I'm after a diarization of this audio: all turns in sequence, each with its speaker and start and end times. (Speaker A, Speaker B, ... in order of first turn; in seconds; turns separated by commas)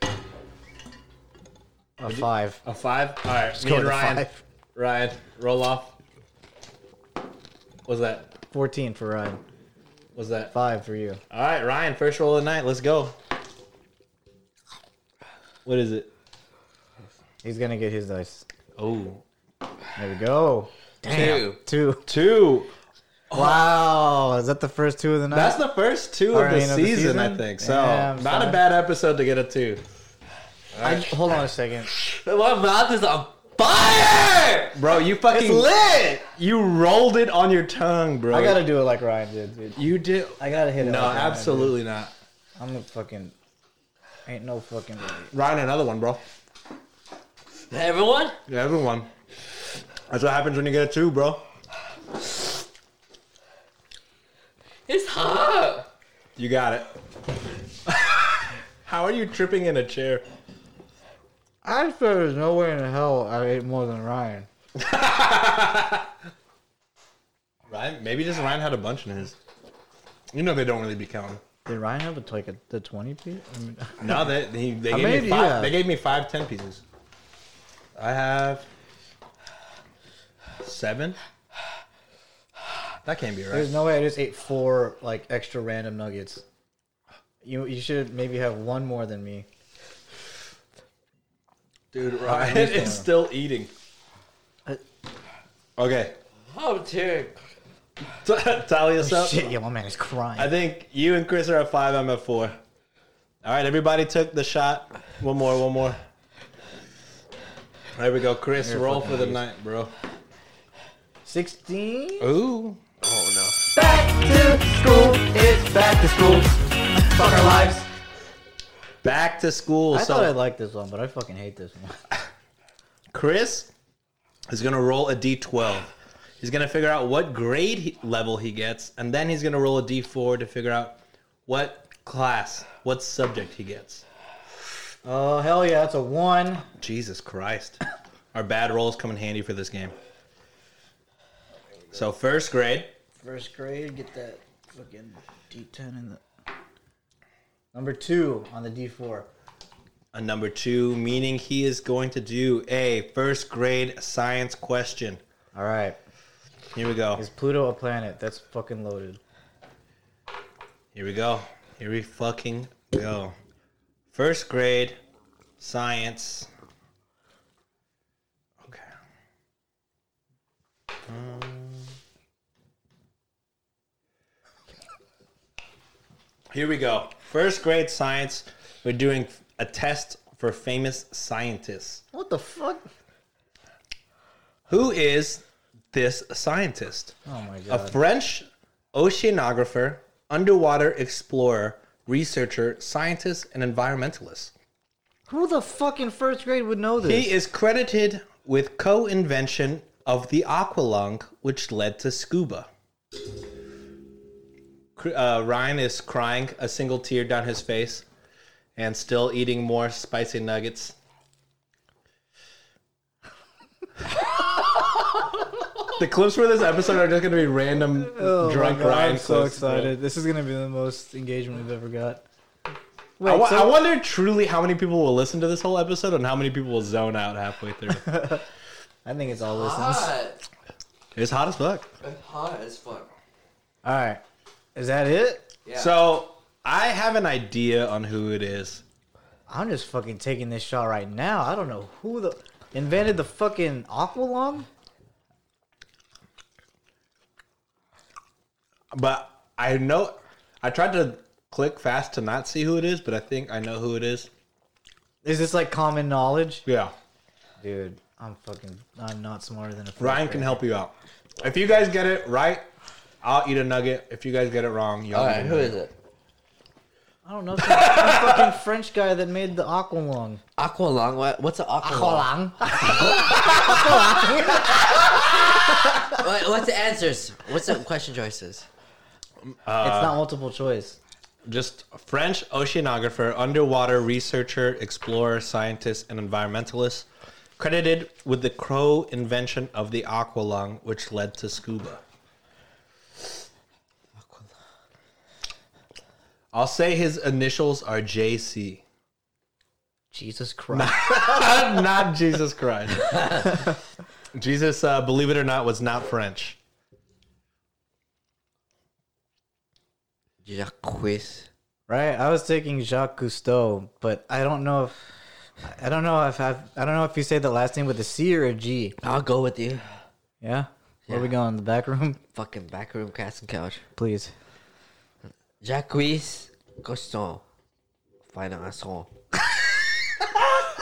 Speaker A: 2.0-2.6, Speaker B: 2.1-5.9, Speaker A: 3.5-4.4, Speaker B: 7.9-8.3, Speaker A: 8.5-9.4, Speaker B: 10.2-10.5, Speaker A: 10.5-11.2, Speaker B: 11.3-13.2, Speaker B: 15.7-16.1, Speaker A: 17.4-18.4, Speaker B: 18.8-19.2, Speaker A: 20.0-22.1, Speaker C: 21.0-21.6, Speaker B: 22.1-22.7, Speaker B: 23.3-23.7, Speaker A: 23.3-25.6, Speaker B: 25.3-29.8, Speaker A: 26.3-28.6, Speaker B: 30.8-31.1, Speaker A: 30.8-31.9, Speaker C: 32.0-34.8, Speaker B: 34.7-35.7, Speaker A: 35.3-36.3, Speaker B: 36.3-38.6, Speaker A: 38.3-39.8, Speaker B: 39.8-42.1, Speaker A: 40.4-41.8, Speaker A: 42.6-43.4, Speaker A: 44.3-45.3, Speaker B: 45.3-46.2, Speaker C: 47.7-48.4, Speaker B: 48.5-49.1, Speaker B: 50.1-51.4, Speaker C: 54.9-55.9, Speaker B: 56.4-56.9, Speaker B: 57.9-60.2, Speaker A: 61.6-64.5, Speaker B: 64.8-66.1, Speaker B: 67.7-69.3, Speaker B: 70.3-71.4, Speaker A: 71.7-74.3, Speaker B: 74.0-76.8, Speaker A: 74.9-75.8, Speaker B: 78.0-78.7, Speaker B: 80.6-81.2, Speaker B: 83.0-83.7, Speaker A: 83.5-86.4, Speaker A: 87.4-89.5, Speaker B: 91.9-93.7, Speaker A: 92.2-93.1, Speaker B: 95.8-96.2, Speaker C: 96.5-97.4, Speaker B: 98.2-99.5, Speaker A: 99.0-100.5, Speaker B: 100.4-102.6, Speaker B: 103.4-106.0, Speaker B: 108.0-109.9, Speaker A: 108.6-109.4, Speaker A: 111.2-112.3, Speaker B: 112.2-112.8, Speaker C: 113.0-113.6, Speaker A: 113.7-117.9, Speaker B: 119.0-120.3, Speaker A: 119.9-122.0, Speaker B: 123.1-123.7, Speaker B: 124.5-134.1, Speaker A: 135.0-136.7, Speaker B: 136.8-137.8, Speaker B: 138.3-139.9, Speaker B: 141.9-142.9, Speaker A: 143.2-146.2, Speaker A: 147.7-149.3, Speaker B: 150.1-155.2, Speaker A: 155.5-156.0, Speaker B: 156.8-157.2, Speaker A: 157.2-159.2, Speaker B: 160.9-163.3, Speaker B: 164.1-165.0, Speaker B: 165.6-166.5, Speaker B: 168.6-168.9, Speaker B: 171.1-171.9, Speaker B: 176.5-182.0, Speaker A: 182.1-182.9, Speaker B: 184.7-187.2, Speaker A: 187.3-188.0, Speaker B: 187.7-194.5, Speaker A: 195.3-197.3, Speaker B: 197.0-202.7, Speaker B: 205.0-208.1, Speaker B: 208.8-210.9, Speaker B: 215.9-219.9, Speaker A: 218.0-222.2, Speaker A: 223.2-223.8, Speaker B: 223.2-228.3, Speaker A: 228.1-228.4, Speaker A: 229.1-230.1, Speaker C: 229.4-230.4, Speaker B: 231.2-231.9, Speaker C: 232.0-233.1, Speaker A: 233.8-234.2, Speaker A: 234.8-235.5, Speaker C: 235.7-235.9, Speaker B: 235.8-238.8, Speaker A: 239.5-244.7, Speaker B: 248.9-254.3, Speaker A: 255.2-256.6, Speaker B: 256.7-256.9, Speaker A: 257.6-260.6, Speaker B: 260.0-262.6, Speaker B: 263.2-265.8, Speaker C: 265.1-265.9, Speaker A: 267.2-270.4, Speaker B: 267.6-268.5, Speaker C: 270.6-272.3, Speaker A: 271.8-276.2, Speaker C: 276.1-278.7, Speaker B: 279.4-280.2, Speaker A: 279.8-281.0, Speaker B: 281.5-287.1, Speaker B: 287.6-292.0, Speaker C: 294.2-294.5, Speaker B: 296.5-298.8, Speaker A: 300.1-301.9, Speaker B: 300.7-303.7, Speaker B: 304.3-306.6, Speaker C: 310.4-311.5, Speaker A: 311.9-315.0, Speaker A: 315.6-319.0, Speaker C: 319.0-319.9, Speaker A: 320.4-322.2, Speaker C: 322.3-323.8, Speaker A: 324.0-324.3, Speaker C: 325.6-327.4, Speaker C: 328.3-329.1, Speaker A: 330.2-330.5